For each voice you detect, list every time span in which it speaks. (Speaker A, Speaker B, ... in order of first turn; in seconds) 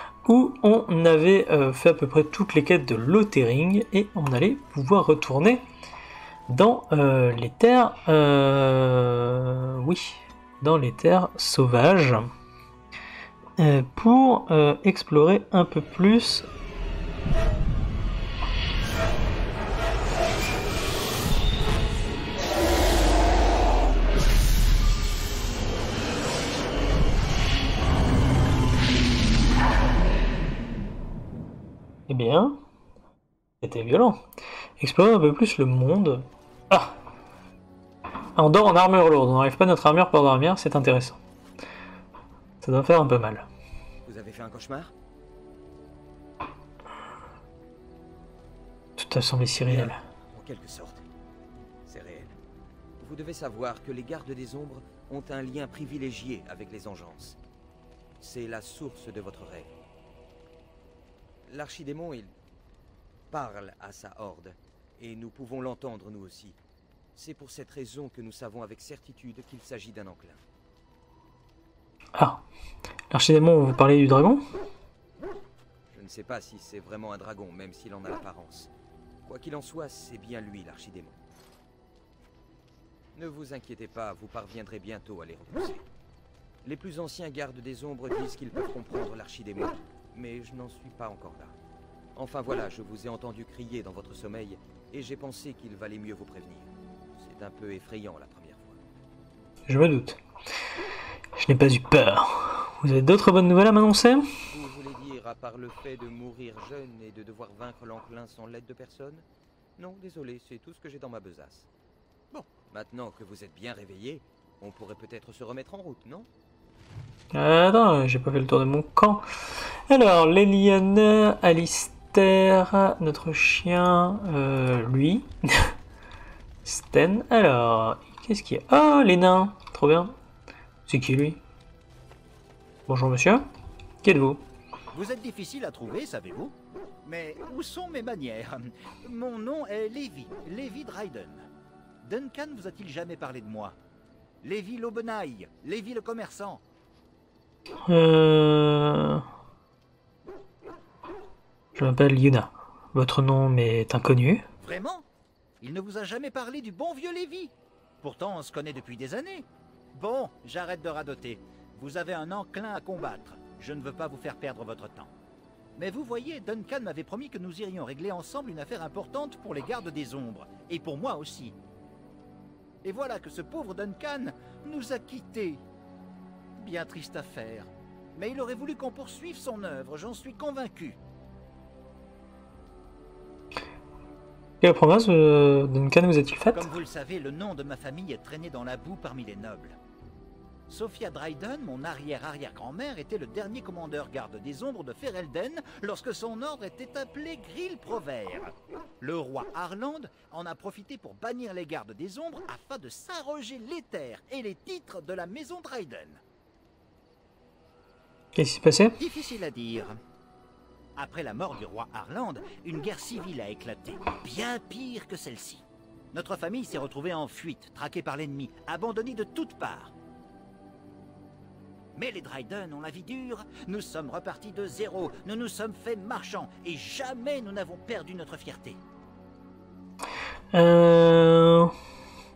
Speaker A: 0.2-5.6, 6.5-12.3, 13.6-16.5, 32.1-32.6, 33.6-34.2, 34.8-37.0, 38.4-41.2, 42.6-43.5, 49.0-50.0, 72.2-72.4, 73.1-74.4, 99.7-100.2, 101.4-104.2, 117.3-119.2, 119.9-125.7, 126.7-130.1, 130.9-131.4, 132.9-133.4, 134.0-134.4, 147.9-149.2, 151.8-154.4, 184.6-186.7, 208.4-209.0, 230.5-231.7
Speaker B: 44.0-44.9, 49.7-51.0, 51.9-52.4, 53.0-57.4, 58.2-59.7, 61.5-62.4, 63.3-66.6, 67.2-70.4, 75.9-78.7, 79.2-81.2, 83.1-85.8, 86.6-91.5, 92.2-98.8, 104.5-109.2, 109.8-111.7, 112.6-116.3
Speaker C: 134.9-141.5, 142.0-143.8, 144.4-146.6, 154.6-155.1, 155.6-165.1, 165.8-171.6, 172.8-175.6, 176.6-181.0, 186.5-189.8, 190.7-206.2, 209.0-210.0, 211.0-219.9, 221.9-228.8